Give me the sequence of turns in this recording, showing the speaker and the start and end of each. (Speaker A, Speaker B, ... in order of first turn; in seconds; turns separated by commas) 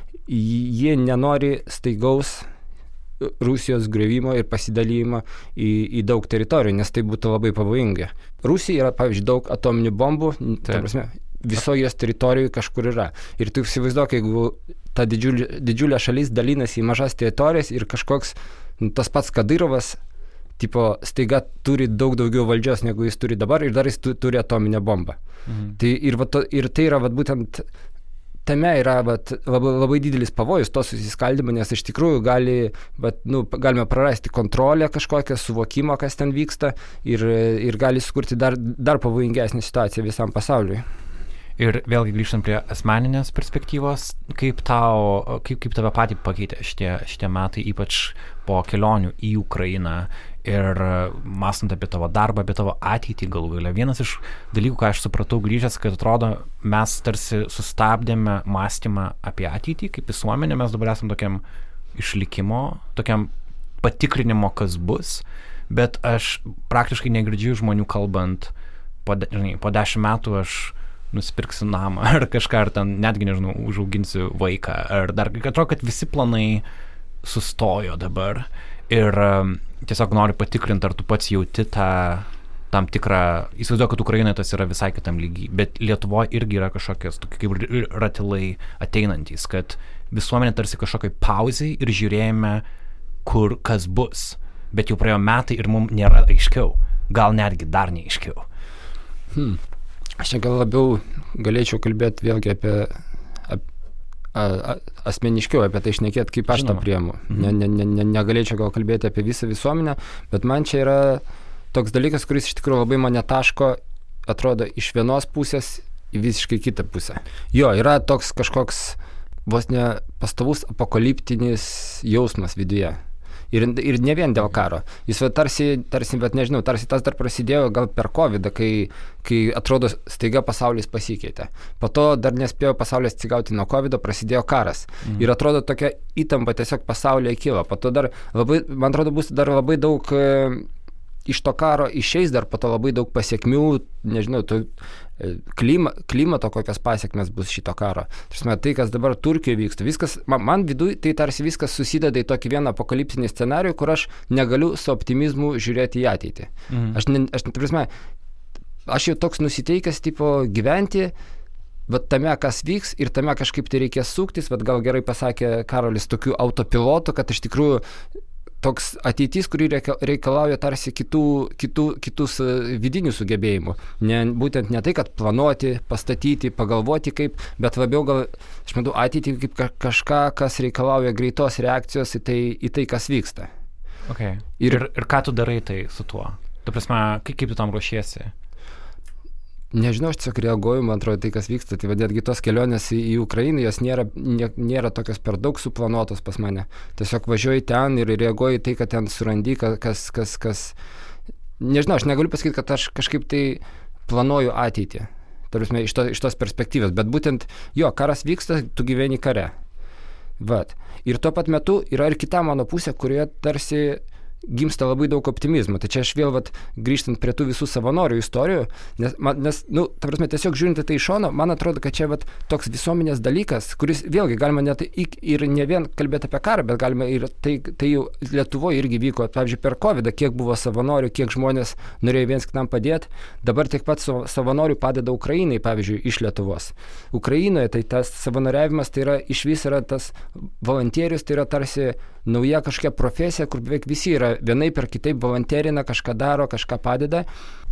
Speaker A: 0.3-2.5, Speaker A: 3.2-20.0, Speaker A: 20.6-25.2, Speaker B: 25.5-25.8, Speaker A: 25.8-27.7, Speaker A: 28.5-40.9, Speaker B: 41.6-61.4, Speaker B: 62.0-68.5, Speaker B: 69.0-76.6, Speaker B: 77.2-92.6, Speaker B: 93.2-98.5, Speaker A: 99.3-99.6, Speaker A: 100.2-103.6, Speaker A: 104.3-123.0, Speaker B: 106.5-107.5, Speaker A: 123.5-140.7, Speaker A: 141.3-157.9, Speaker B: 156.7-157.0, Speaker A: 158.9-161.1, Speaker A: 161.9-167.8, Speaker A: 168.6-183.5, Speaker B: 184.1-188.3, Speaker A: 189.7-200.8, Speaker A: 201.6-209.5, Speaker A: 210.4-247.3